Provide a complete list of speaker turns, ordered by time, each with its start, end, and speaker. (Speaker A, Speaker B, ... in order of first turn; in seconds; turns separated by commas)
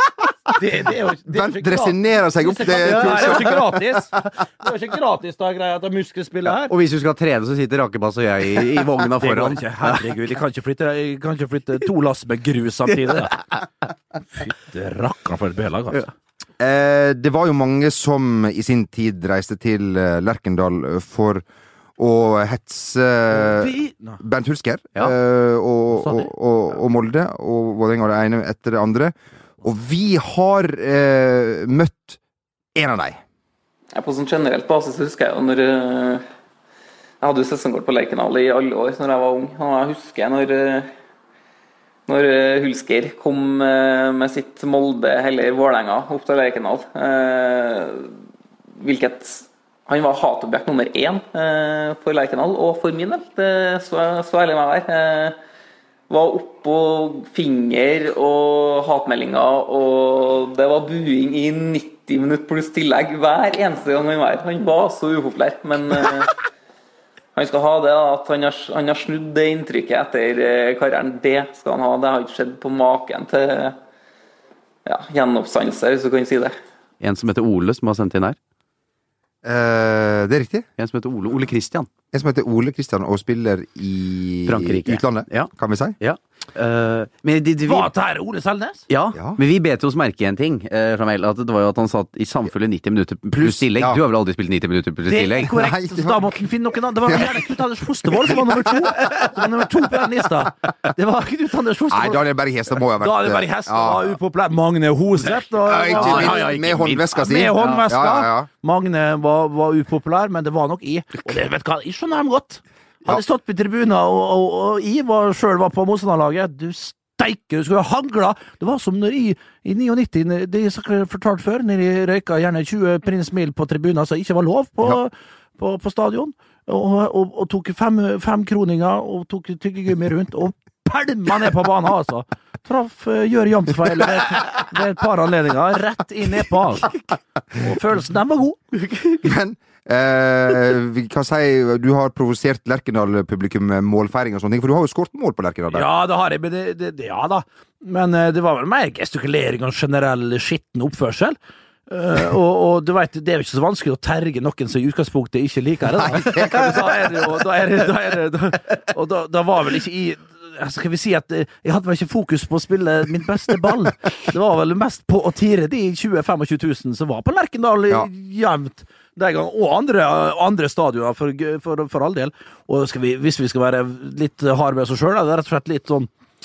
Speaker A: 0.5-6.7, Speaker B: 1.3-4.0, Speaker C: 2.7-3.6, Speaker C: 6.7-10.0, Speaker A: 9.2-13.3, Speaker A: 14.3-16.1, Speaker B: 16.6-21.4, Speaker B: 22.0-32.2, Speaker A: 23.3-24.2, Speaker A: 25.9-26.3, Speaker B: 32.7-33.2, Speaker D: 33.9-36.2, Speaker D: 37.2-40.9, Speaker D: 42.1-48.1, Speaker D: 48.8-55.4, Speaker D: 56.1-66.3, Speaker D: 67.3-73.8, Speaker D: 74.8-76.5, Speaker C: 77.0-78.4, Speaker B: 79.4-80.7, Speaker C: 80.8-81.9, Speaker B: 82.1-86.0, Speaker C: 84.5-87.9, Speaker A: 87.6-88.8, Speaker C: 88.9-95.5, Speaker B: 89.1-89.4, Speaker B: 93.3-94.0, Speaker A: 95.1-102.2, Speaker B: 95.5-96.2, Speaker B: 97.1-97.3, Speaker B: 101.9-104.2, Speaker A: 103.0-106.5, Speaker B: 105.7-108.5, Speaker C: 105.8-107.8, Speaker A: 107.2-136.9, Speaker A: 137.6-138.6, Speaker C: 138.8-139.2, Speaker B: 139.2-145.9, Speaker A: 145.7-151.4, Speaker A: 151.9-176.1, Speaker B: 156.0-156.7